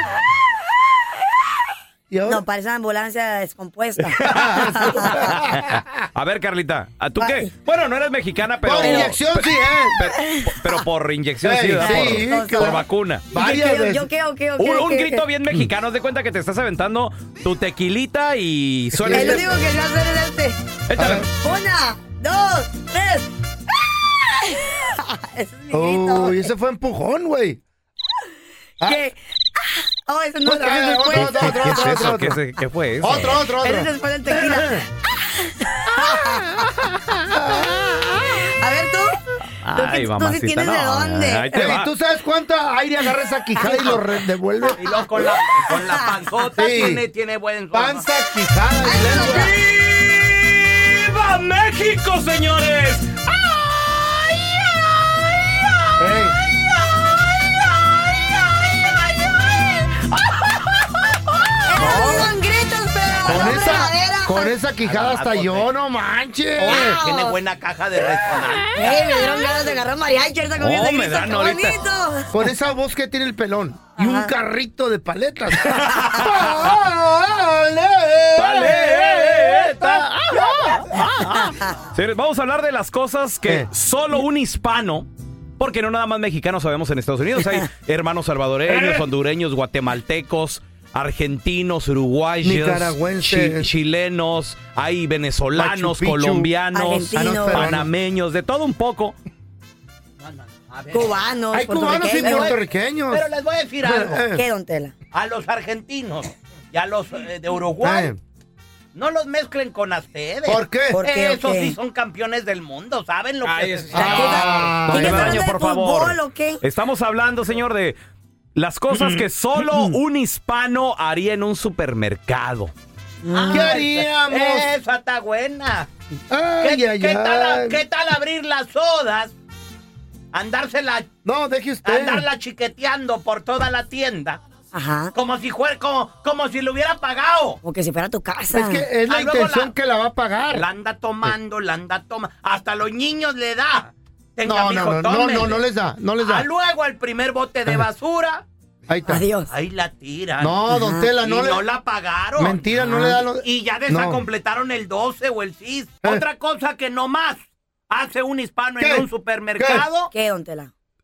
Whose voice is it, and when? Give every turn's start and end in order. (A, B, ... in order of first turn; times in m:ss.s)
0:02.1-0:02.4 A
0:02.2-0:05.4 B
0:04.2-0:04.6 C
0:04.2-0:05.8 A
0:05.1-0:09.5 C
0:07.2-0:07.5 B
0:08.6-0:10.0 A
0:08.8-0:09.2 B
0:10.0-0:13.3 C
0:10.1-0:10.8 B
0:11.4-0:14.1 A
0:11.7-0:15.3 B
0:14.6-0:19.5 C
0:19.0-0:19.6 A
0:19.0-0:23.3 B
0:20.9-0:21.3 C
0:21.0-0:21.3 A
0:24.3-0:26.5 B
0:25.7-0:27.6 A
0:28.8-0:32.1 B
0:30.4-0:32.4 A
0:31.1-0:33.4 C
0:33.0-0:34.9 A
0:33.0-0:39.2 B
0:37.3-0:37.7 A
0:39.6-0:41.9 C
0:39.7-0:41.5 B
0:41.5-0:44.8 A
0:43.6-0:44.0 B
0:44.8-0:48.0 D
0:44.8-0:46.2 B
0:46.6-0:47.0 A
0:47.7-0:49.5 A
0:48.8-0:49.9 B
0:48.9-0:53.2 C
0:56.0-0:56.4 A
1:01.7-1:04.5 B
1:01.8-1:02.3 A
1:03.2-1:07.0 A
1:04.8-1:05.7 D
1:06.6-1:09.2 D
1:06.6-1:07.4 B
1:08.7-1:12.3 B
1:10.6-1:11.8 C
1:12.3-1:21.4 A
1:14.0-1:14.3 B
1:15.8-1:16.6 C
1:18.4-1:25.1 C
1:21.4-1:21.8 B
1:25.6-1:39.2 C
1:28.7-1:29.1 A
1:32.4-1:33.7 A
1:35.5-1:36.5 A
1:36.7-1:37.8 B
1:37.1-1:37.9 A
1:40.2-1:41.1 D
1:40.9-1:42.6 B
1:41.5-1:43.3 A
1:42.2-1:42.6 D
1:43.1-1:44.2 D
1:43.8-1:44.4 A
1:44.3-1:44.9 B
1:45.1-1:48.1 D
1:47.8-1:48.2 A
1:49.0-1:54.6 D
1:50.5-1:51.0 A
1:50.9-1:51.8 B
1:53.4-1:58.0 C
1:53.9-1:55.5 A
1:54.0-1:56.6 B
1:58.6-2:02.7 C
1:59.6-1:59.9 A
2:03.2-2:03.8 B
2:03.3-2:05.9 D
2:03.5-2:04.7 A
2:06.3-2:07.8 A
2:06.6-2:09.3 D
2:10.3-2:11.1 D
2:11.2-2:12.3 A
2:11.8-2:14.4 D
2:14.7-2:15.1 B
2:15.2-2:17.6 D
2:17.6-2:18.9 B
2:18.5-2:20.7 A
2:19.1-2:19.7 D
2:20.5-2:25.6 D
2:24.4-2:26.5 A
2:26.2-2:28.4 D
2:28.9-2:29.2 A
2:29.0-2:29.5 B
2:29.5-2:30.6 D
2:30.4-2:31.6 A
2:30.7-2:31.1 B
2:31.2-2:40.1 D
2:32.4-2:34.2 A
2:38.8-2:39.1 A
2:39.6-2:39.9 A
2:40.1-2:40.7 B